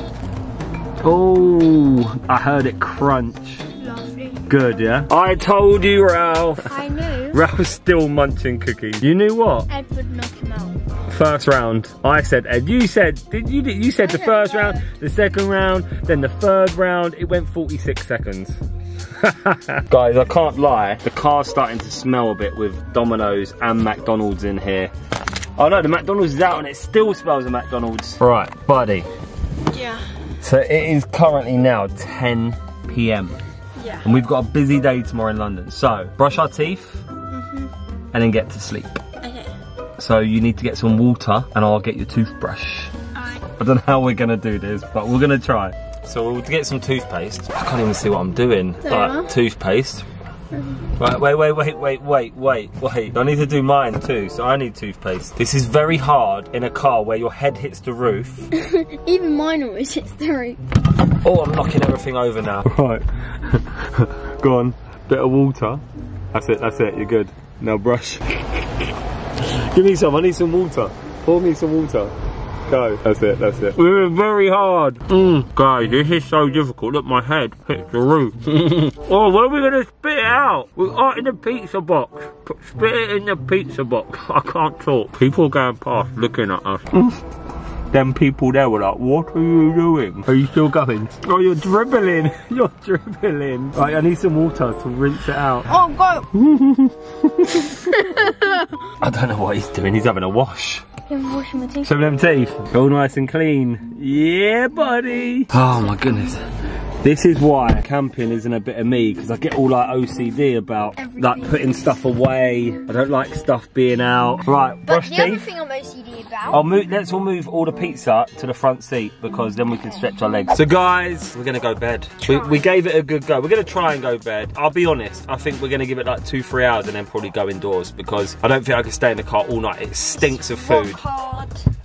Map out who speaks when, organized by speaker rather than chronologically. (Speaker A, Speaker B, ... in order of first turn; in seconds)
Speaker A: 1.0-3.6, 4.5-6.7, 7.3-9.7, 11.1-18.6, 19.2-24.9, 25.6-29.1, 30.4-33.4, 34.0-37.0, 38.1-39.0, 40.0-42.9, 43.6-50.0, 51.0-58.5, 61.2-65.8, 66.3-68.8, 69.4-72.1, 72.7-87.2, 87.9-95.7, 96.3-97.8, 99.0-100.9, 101.8-106.4, 107.0-115.5, 116.5-131.0
Speaker B: 3.8-4.5, 6.6-7.4, 9.7-10.8, 14.0-14.8, 29.7-30.0, 33.8-34.0, 37.3-37.7, 39.2-39.5, 43.1-43.4, 48.8-49.3, 50.5-50.8, 58.5-60.6, 95.7-96.3, 97.8-98.7, 101.1-101.9, 111.0-111.8, 114.8-116.6, 122.3-122.7, 130.2-131.6